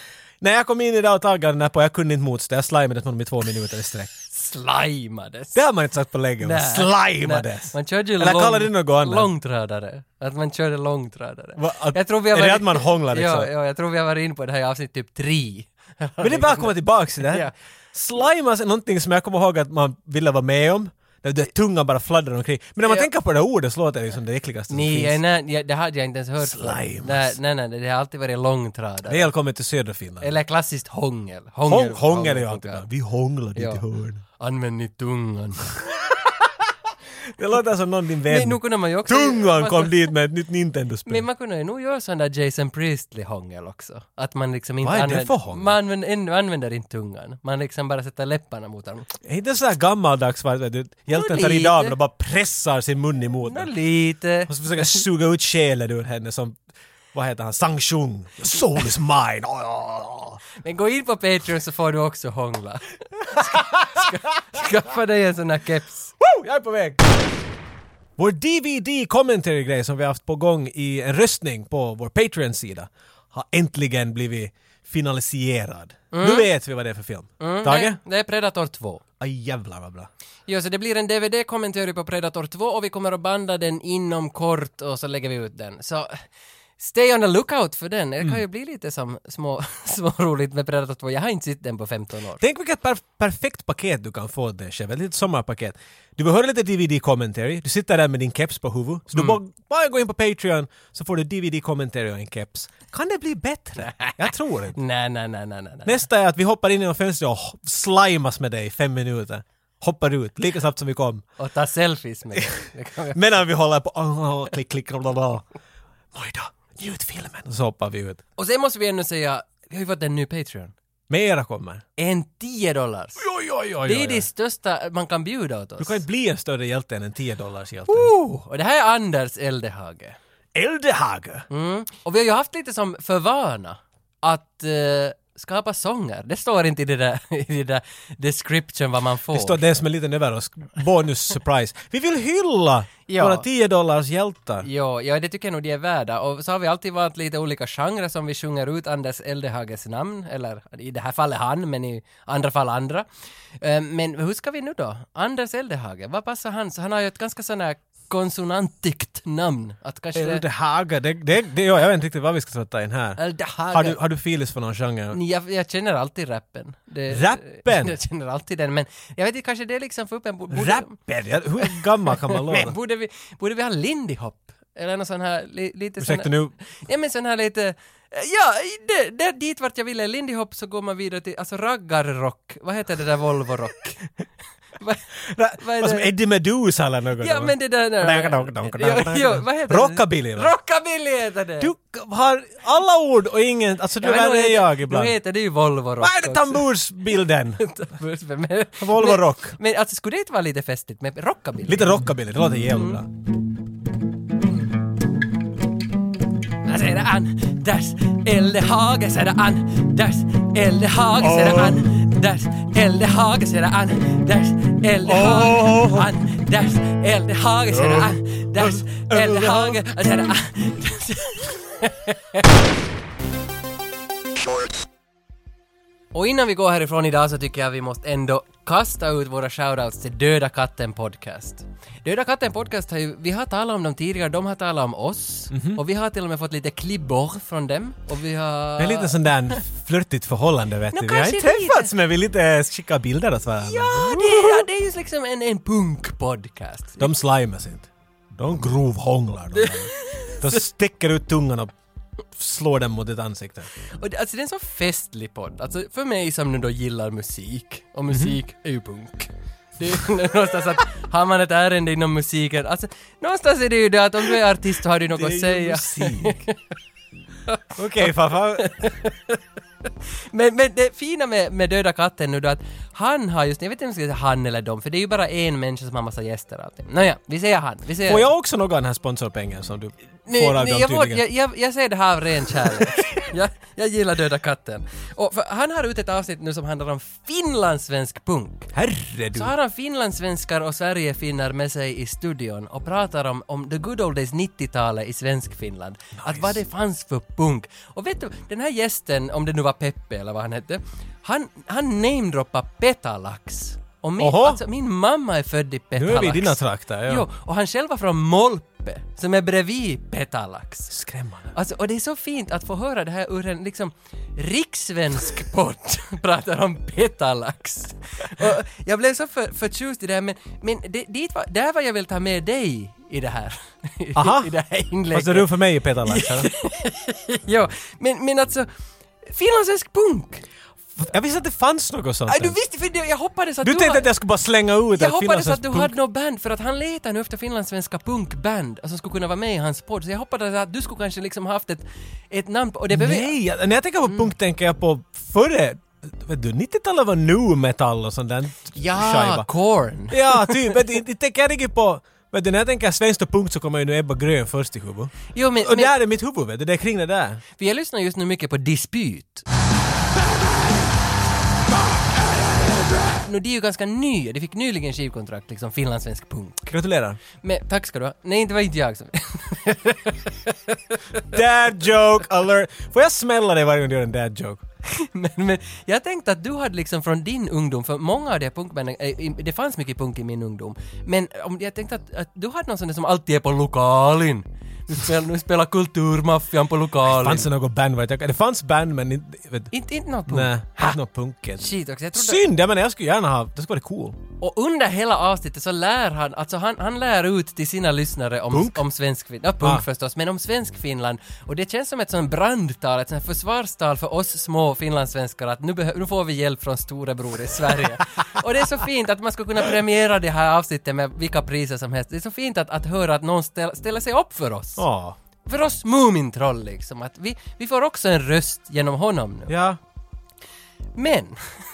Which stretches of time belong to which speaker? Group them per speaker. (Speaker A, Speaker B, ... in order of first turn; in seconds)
Speaker A: 0.4-4.1, 5.5-9.3, 11.6-13.5, 16.2-25.2, 26.4-27.3, 29.1-30.3, 31.7-34.2, 37.3-41.2, 44.8-45.7, 49.2-53.7, 54.5-56.6, 57.1-60.4, 63.4-64.1, 66.2-67.1, 68.2-78.0, 79.2-80.1, 92.4-104.8, 105.8-111.2, 113.1-115.4, 116.1-118.2, 121.1-121.8, 123.2-124.3, 125.8-128.1, 130.5-131.5, 139.3-144.7, 160.1-165.2, 167.1-167.9, 170.5-172.7, 176.0-176.5, 185.2-190.5, 191.6-195.2, 196.0-197.6, 198.8-199.6, 201.7-203.1, 211.2-212.0, 215.0-216.1, 217.7-219.8, 235.5-235.8, 238.8-244.7, 247.0-251.7, 252.3-253.7, 258.1-258.4, 265.1-266.4, 267.8-268.7, 278.1-281.2, 282.6-283.2, 288.7-289.5, 296.2-296.6, 304.2-304.6, 305.9-307.2, 310.9-311.5, 324.1-324.5, 325.1-326.5, 330.9-332.6, 333.6-335.9, 342.9-349.5, 350.1-357.4, 366.7-367.2, 371.3-374.6, 387.0-389.7, 390.3-394.2, 398.5-398.8, 414.8-415.2, 419.5-419.8
Speaker B: 4.3-5.6, 6.4-17.5, 24.7-29.3, 30.2-32.8, 33.5-33.8, 34.4-35.7, 38.3-40.0, 41.0-49.1, 51.1-51.9, 53.5-55.0, 60.6-66.1, 76.1-76.5, 77.4-79.0, 80.5-86.2, 86.8-92.4, 103.8-104.2, 104.7-106.0, 111.4-113.2, 118.4-120.7, 122.0-123.2, 123.8-126.0, 127.9-130.2, 131.5-139.8, 143.1-143.4, 144.6-153.1, 153.6-160.4, 163.2-164.0, 165.1-170.9, 171.6-184.0, 184.8-185.1, 185.6-186.1, 187.2-191.7, 194.0-202.0, 206.6-222.4, 226.1-239.6, 240.9-241.9, 243.6-247.1, 249.5-250.6, 253.9-266.5, 267.5-269.4, 270.1-278.3, 280.2-288.7, 289.3-310.9, 311.5-328.7, 329.2-330.4, 332.3-334.1, 334.9-343.3, 348.7-350.8, 355.3-355.9, 357.6-359.4, 363.1-366.8, 367.4-371.4, 374.9-387.5, 389.7-391.0, 391.6-392.4, 394.4-414.8, 415.4-419.5, 420.9-421.4